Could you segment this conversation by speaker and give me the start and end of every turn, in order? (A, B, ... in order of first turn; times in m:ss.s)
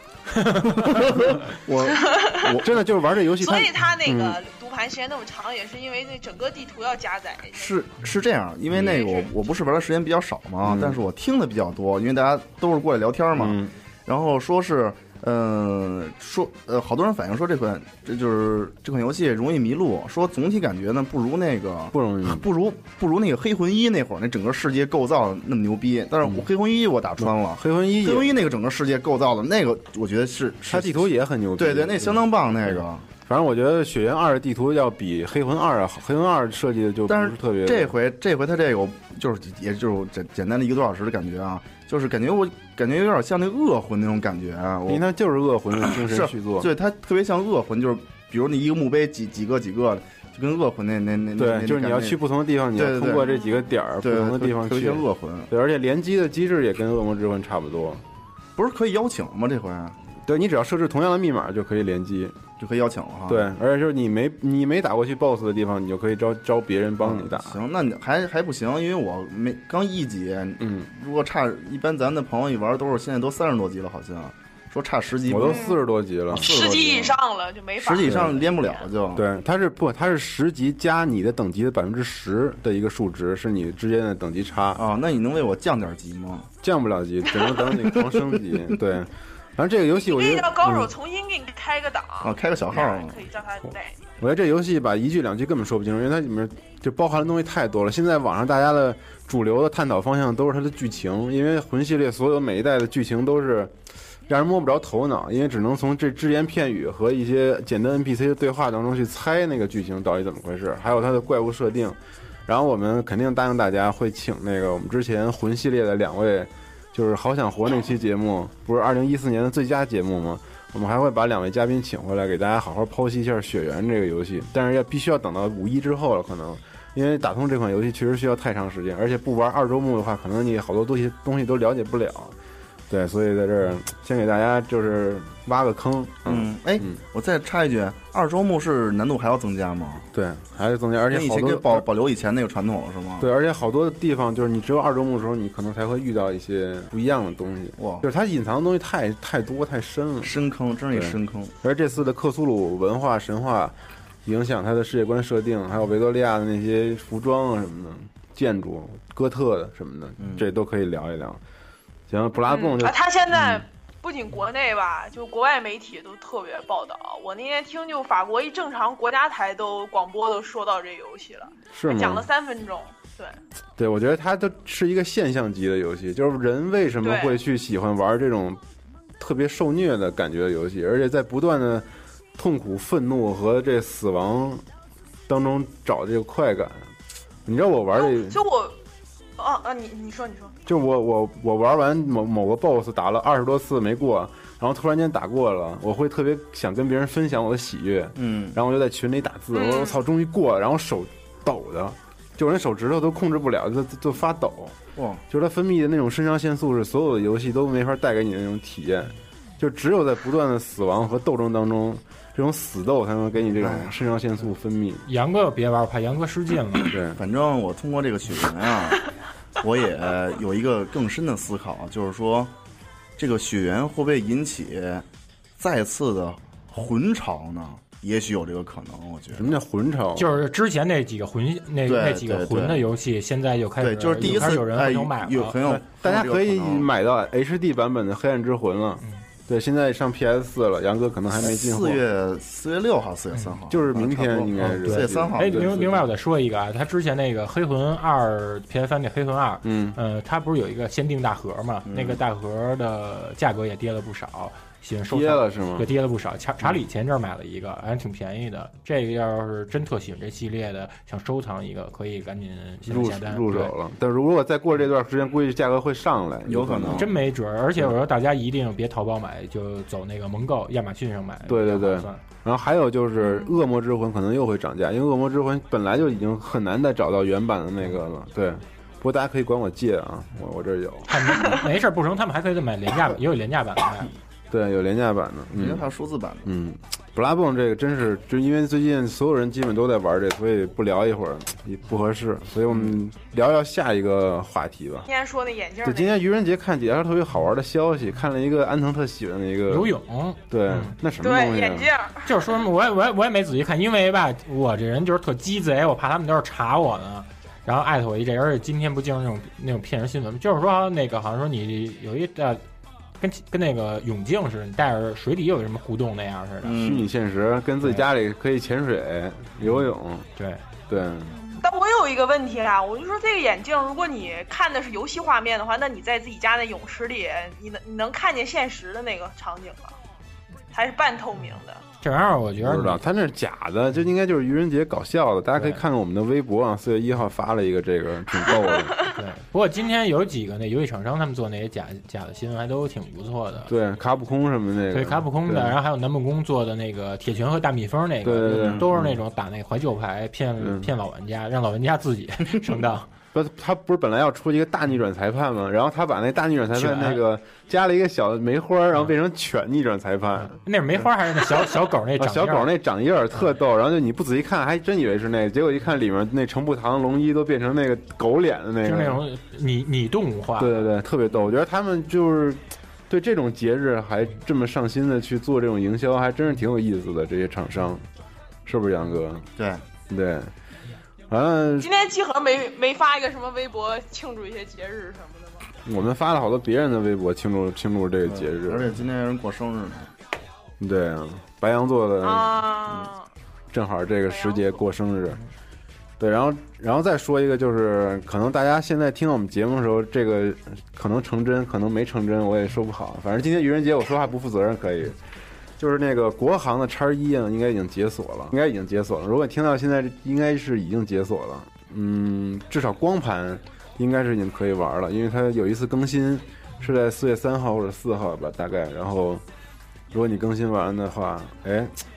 0:00.4-0:02.7 A
0:02.0-0:02.5 B
0:02.6-0:04.4 C
0:03.4-0:07.7 B
0:07.5-0:33.0 A
0:08.7-0:09.3 B
0:10.6-0:11.0 C
0:13.3-0:13.7 C
0:21.9-0:22.4 C
0:27.2-0:28.3 C
0:30.7-0:37.9 C
0:37.1-0:45.0 A
0:44.9-0:46.7 C
0:45.8-0:52.2 A
0:51.4-0:58.0 C
0:52.7-0:53.4 A
0:54.0-0:55.5 A
0:58.6-1:00.0 A
1:00.2-1:02.3 C
1:02.6-1:03.5 A
1:03.3-1:07.6 C
1:07.0-1:15.8 A
1:10.6-1:10.9 C
1:15.2-1:16.6 C
1:15.4-1:15.8 B
1:16.3-1:17.2 A
1:16.4-1:18.9 B
1:17.8-1:19.2 A
1:18.0-1:18.4 C
1:19.1-1:24.8 C
1:24.7-1:26.5 A
1:26.6-1:30.9 C
1:27.6-1:28.4 A
1:30.0-1:34.0 B
1:32.2-1:33.2 A
1:34.2-1:43.7 C
1:44.3-2:12.4 C
2:12.9-2:17.0 C
2:16.2-2:20.1 A
2:20.1-2:21.9 C
2:21.1-2:23.3 A
2:23.2-2:30.4 C
2:27.8-2:28.0 A
2:30.2-2:31.5 A
2:30.9-2:41.4 C
2:40.2-2:40.5 A
2:42.1-2:43.6 C
2:42.5-2:53.4 B
2:51.7-2:52.3 C
2:53.8-2:58.6 C
2:57.0-2:57.4 B
2:59.2-3:04.6 C
3:05.3-3:06.8 C
3:07.4-3:08.4 C
3:08.0-3:08.8 B
3:09.4-3:10.6 B
3:10.6-3:24.8 C
3:18.2-3:18.6 A
3:19.5-3:20.0 B
3:25.0-3:25.2 A
3:25.3-3:35.0 C
3:33.6-3:33.9 A
3:35.0-3:36.9 D
3:36.9-3:37.2 C
3:37.1-3:39.1 A
3:39.6-3:42.5 A
3:43.2-3:45.0 A
3:45.6-3:49.5 A
3:49.3-3:50.3 C
3:50.2-3:55.6 D
3:51.8-3:52.8 A
3:53.8-3:56.8 A
3:54.2-3:54.5 C
3:55.6-4:02.0 C
4:01.4-4:06.0 A
4:03.7-4:06.0 C
4:04.6-4:23.7 D
4:09.6-4:10.0 C
4:11.9-4:12.2 A
4:15.1-4:15.9 C
4:22.9-4:27.1 C
4:26.4-4:27.1 A
4:26.9-4:32.2 D
4:31.4-4:41.5 C
4:41.1-4:44.1 D
4:44.5-4:45.9 C
4:45.6-4:46.5 A
4:46.4-4:55.1 C
4:52.7-4:53.0 A
4:55.0-4:56.2 B
4:55.8-4:59.9 C
4:59.7-5:01.0 D
5:00.5-5:01.9 C
5:01.2-5:02.3 B
5:02.2-5:12.6 D
5:13.2-5:16.8 D
5:16.6-5:17.1 A
5:16.8-5:20.3 C
5:20.4-5:20.6 D
5:20.9-5:21.3 C
5:21.4-5:29.9 B
5:30.7-5:31.8 B
5:32.0-5:33.0 D
5:32.6-5:39.0 C
5:38.5-5:38.9 B
5:39.1-5:43.7 D
5:43.7-5:45.8 C
5:44.9-5:53.1 D
5:48.2-5:49.2 C
5:48.6-5:48.8 A
5:50.6-5:50.9 C
5:53.3-6:01.6 C
5:56.7-5:57.2 D
6:00.5-6:02.7 D
6:02.2-6:09.2 C
6:08.8-6:10.8 D
6:10.6-6:18.0 C
6:18.6-6:19.5 C
6:19.6-6:19.8 A
6:20.1-6:20.5 C
6:21.3-6:21.9 C
6:21.8-6:25.7 B
6:25.8-6:28.9 C
6:28.2-6:30.1 A
6:30.8-6:32.7 C
6:32.2-6:33.2 B
6:33.7-6:35.4 C
6:34.3-6:34.8 B
6:36.2-6:45.2 C
6:45.8-6:59.4 C
7:00.1-7:02.0 C